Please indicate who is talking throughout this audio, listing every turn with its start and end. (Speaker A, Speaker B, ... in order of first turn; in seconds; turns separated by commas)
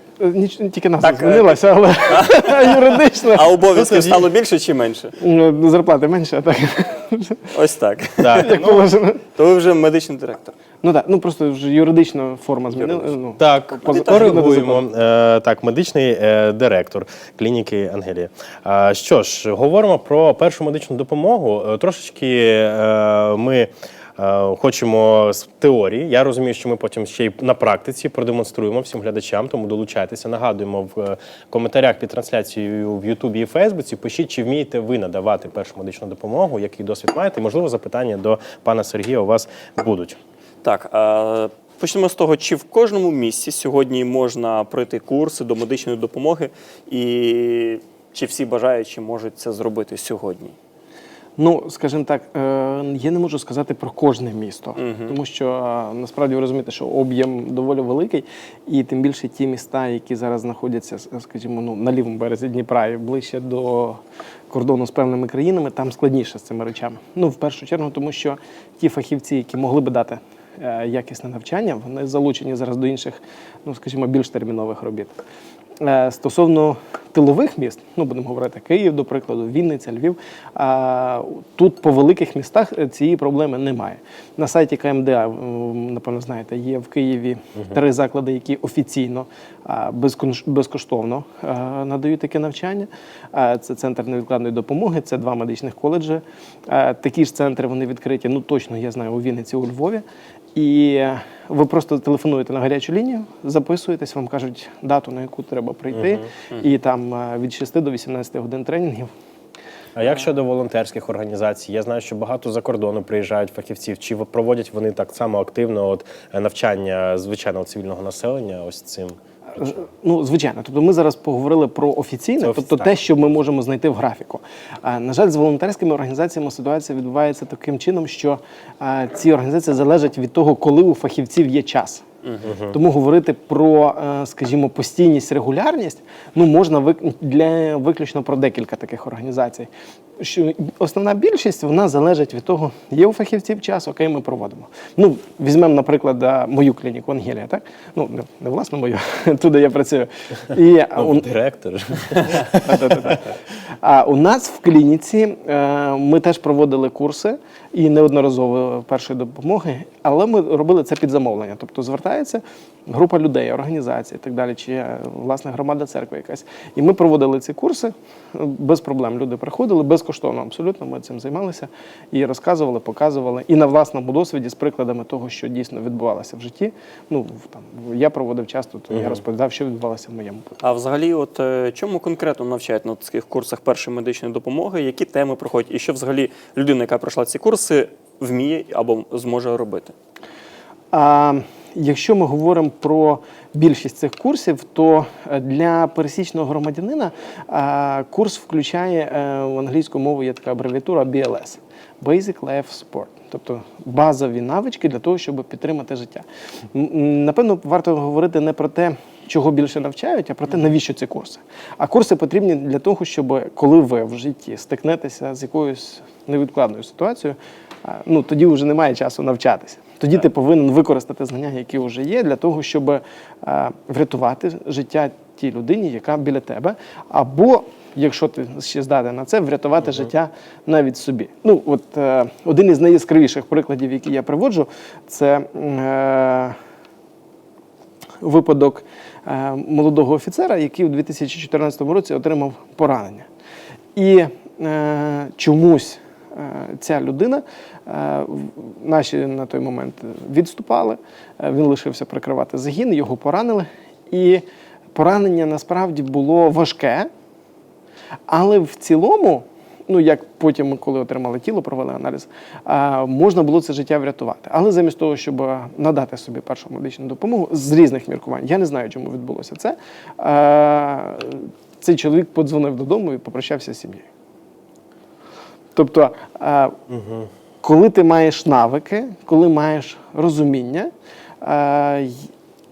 Speaker A: 0.2-3.5, Speaker B: 1.0-5.1, Speaker C: 3.7-4.3, Speaker A: 5.2-7.4, Speaker B: 7.5-8.6, Speaker C: 8.2-8.9, Speaker A: 8.4-9.2, Speaker B: 9.3-10.5, Speaker A: 10.8-14.8, Speaker B: 12.8-13.2, Speaker C: 13.4-40.2, Speaker B: 13.8-14.4, Speaker B: 40.6-50.6, Speaker A: 51.4-75.2, Speaker B: 54.8-55.1, Speaker A: 75.8-100.0, Speaker A: 100.5-109.1, Speaker C: 110.0-119.2, Speaker A: 119.6-132.0, Speaker C: 122.4-122.9, Speaker C: 132.4-132.8, Speaker A: 132.7-151.3, Speaker C: 151.0-153.2, Speaker A: 152.7-153.3, Speaker A: 153.8-180.6, Speaker B: 180.6-189.9, Speaker A: 190.9-236.6, Speaker A: 238.2-243.3, Speaker A: 243.9-254.4, Speaker A: 254.9-257.1, Speaker A: 258.3-274.1, Speaker A: 275.8-276.8, Speaker C: 276.9-277.3, Speaker A: 277.6-280.9, Speaker A: 281.4-282.3